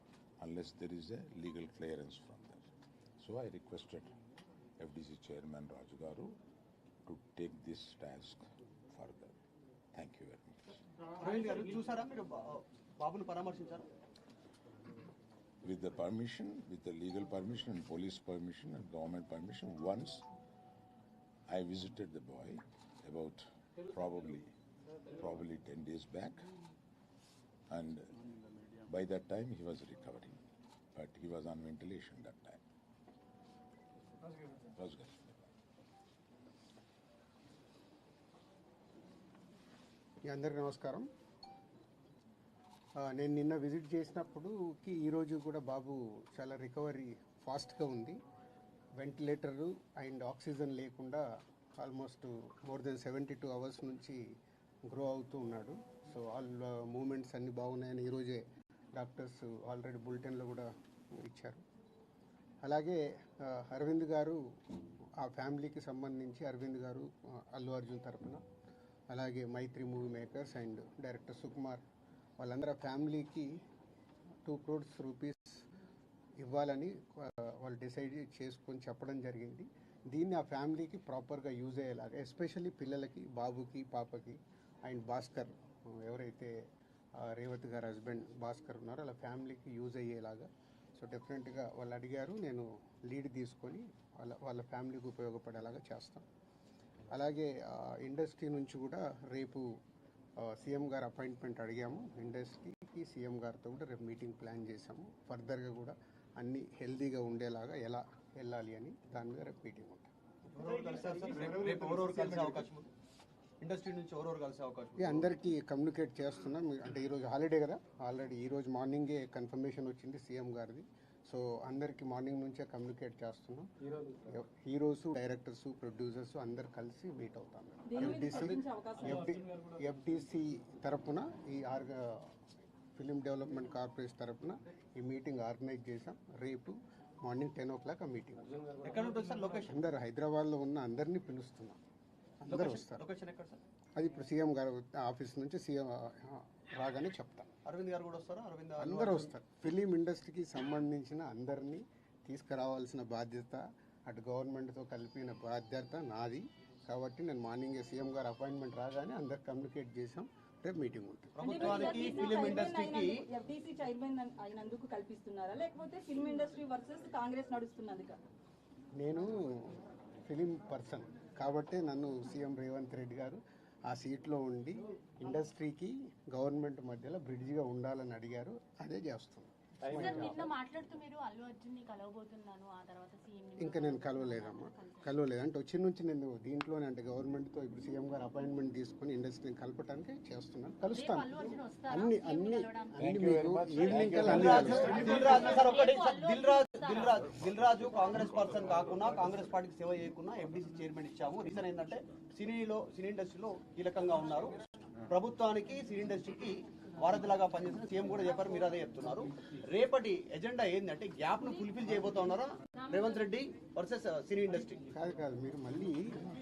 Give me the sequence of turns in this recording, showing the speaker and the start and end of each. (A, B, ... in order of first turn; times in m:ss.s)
0:00.4-0:02.6 A
0:03.2-0:04.1 A
0:04.8-0:06.4 A
0:07.1-0:09.4 A
0:09.9-0:10.8 A
0:11.2-0:13.9 B
0:15.6-0:20.2 A
0:21.5-0:24.5 A
0:25.2-0:26.5 A
0:27.7-0:28.1 A
0:28.9-0:30.4 A
0:30.9-0:32.6 A
0:34.8-0:35.4 A
0:40.3-0:41.1 C
0:43.0-0:48.2 C
0:49.0-0:51.2 C
0:51.8-0:54.2 C
0:54.9-0:58.4 C
0:59.0-1:01.6 C
1:02.6-1:04.4 C
1:05.2-1:08.4 C
1:09.1-1:11.8 C
1:12.4-1:13.5 C
1:14.4-1:15.6 C
1:16.4-1:26.5 C
1:27.2-1:36.2 C
1:37.1-1:39.7 C
1:40.4-1:50.1 C
1:50.5-1:52.9 B
1:53.6-1:55.2 B
1:55.0-2:12.3 C
2:07.9-2:09.2 D
2:13.0-2:18.8 C
2:18.8-2:19.8 B
2:19.7-2:21.8 C
2:22.4-2:23.0 C
2:22.5-2:23.6 B
2:24.0-2:27.5 C
2:27.7-2:29.3 B
2:28.8-2:41.9 C
2:41.4-2:43.1 B
2:41.4-2:48.2 D
2:49.0-3:00.6 C
3:00.6-3:03.5 E
3:03.6-3:15.0 C
3:13.0-3:15.3 A
3:14.3-3:34.8 B
3:34.9-3:36.0 C